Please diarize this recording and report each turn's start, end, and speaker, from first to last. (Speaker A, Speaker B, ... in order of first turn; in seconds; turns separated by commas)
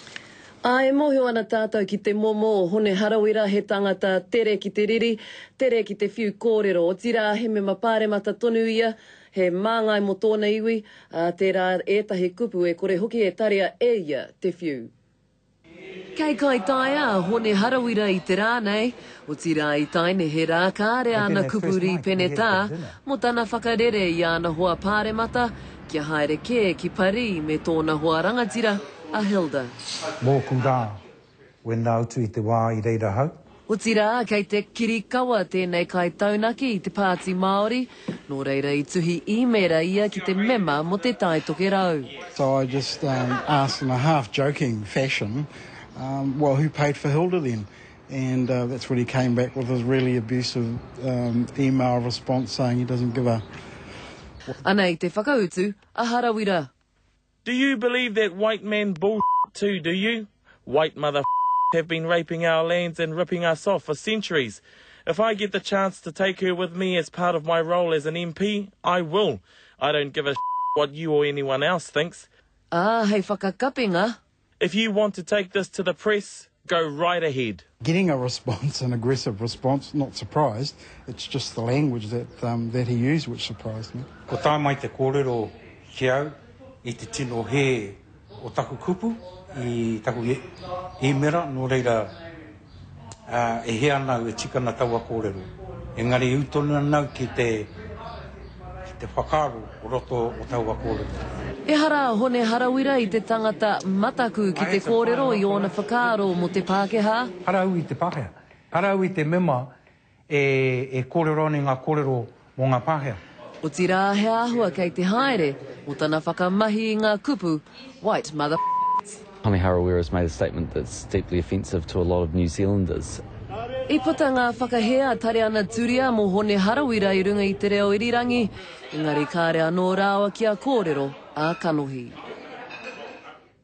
Speaker A: 0.6-14.9, Speaker A: 16.1-29.7, Speaker B: 21.1-22.9, Speaker B: 30.2-31.0, Speaker B: 31.6-33.4, Speaker A: 33.7-42.1, Speaker C: 42.3-53.4, Speaker A: 54.6-56.7, Speaker D: 57.4-72.3, Speaker A: 72.7-74.2, Speaker D: 74.6-77.6, Speaker C: 77.8-84.1, Speaker B: 84.3-90.4, Speaker B: 91.0-92.1, Speaker B: 93.3-97.7, Speaker B: 99.0-101.1, Speaker A: 101.7-107.3, Speaker B: 104.5-105.7, Speaker B: 107.4-109.7, Speaker B: 110.3-113.2, Speaker A: 113.6-118.6, Speaker E: 119.4-123.2, Speaker A: 123.9-132.1